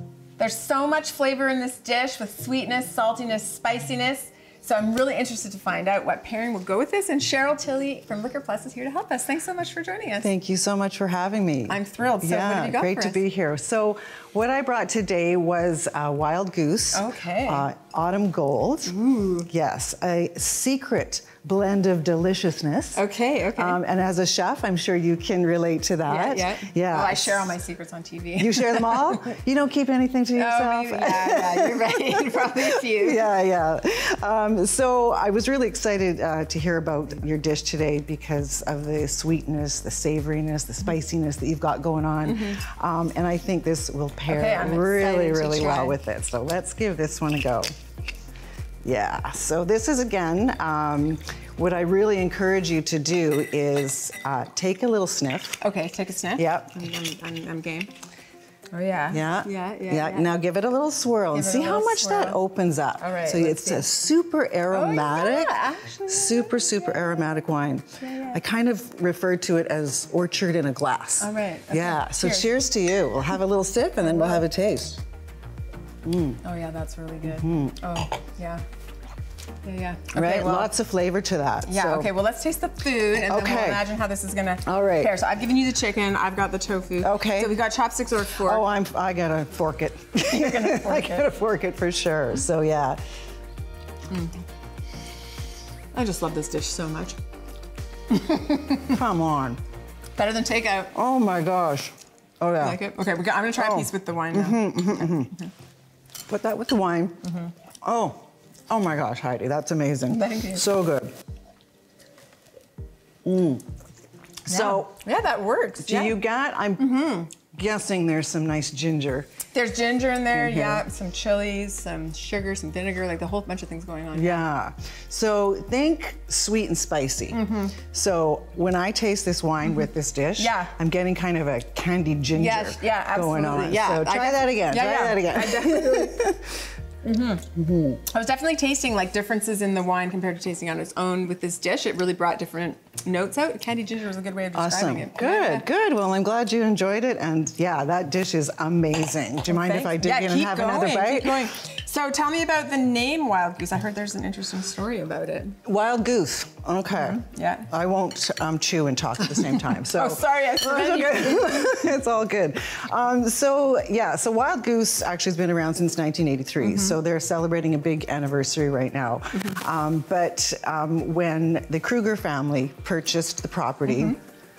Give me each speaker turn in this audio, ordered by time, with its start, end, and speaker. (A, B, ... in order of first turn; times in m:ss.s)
0:00.4-0:10.3 A
0:10.2-0:19.0 B
0:11.7-0:13.2 A
0:16.9-0:17.7 A
0:18.9-0:19.5 A
0:19.5-0:27.6 B
0:22.9-0:23.8 A
0:26.0-0:29.3 A
0:28.4-0:47.7 B
0:30.3-0:33.3 A
0:42.2-0:42.6 A
0:44.3-0:46.0 A
0:48.8-0:55.6 B
0:55.6-0:57.9 A
0:56.4-0:56.7 B
0:58.7-1:00.3 A
0:59.1-1:15.0 B
1:01.3-1:02.4 A
1:03.0-1:03.9 A
1:04.7-1:07.0 A
1:08.0-1:08.4 A
1:11.2-1:12.6 A
1:14.0-1:14.4 A
1:16.0-1:16.4 B
1:16.4-1:18.6 A
1:17.3-1:17.8 B
1:19.6-1:20.7 A
1:20.1-1:22.1 B
1:21.6-1:28.7 A
1:23.2-1:23.9 B
1:24.6-1:25.1 B
1:27.0-1:27.6 B
1:28.4-1:33.0 B
1:30.2-1:31.3 A
1:34.1-1:34.4 A
1:35.9-1:37.2 A
1:38.1-1:39.0 A
1:38.8-1:39.6 B
1:40.2-1:40.9 A
1:40.9-1:42.8 B
1:42.6-1:45.5 A
1:43.5-1:45.3 B
1:46.3-1:47.2 B
1:47.2-1:47.5 A
1:47.8-1:51.1 B
1:50.1-1:50.7 A
1:53.2-1:53.6 B
1:54.4-1:55.0 B
1:54.5-1:56.2 A
1:55.8-1:59.3 B
1:56.8-1:57.3 A
1:59.5-2:04.4 A
2:00.2-2:00.8 B
2:04.1-2:16.6 B
2:07.3-2:07.8 A
2:10.4-2:10.7 A
2:12.3-2:16.3 A
2:17.0-2:17.5 A
2:17.6-2:18.0 B
2:18.0-2:25.7 A
2:24.5-2:31.5 B
2:29.5-2:35.6 A
2:35.6-2:54.2 B
2:36.9-2:37.7 A
2:39.5-2:41.7 A
2:46.6-2:47.0 A
2:53.8-2:54.2 A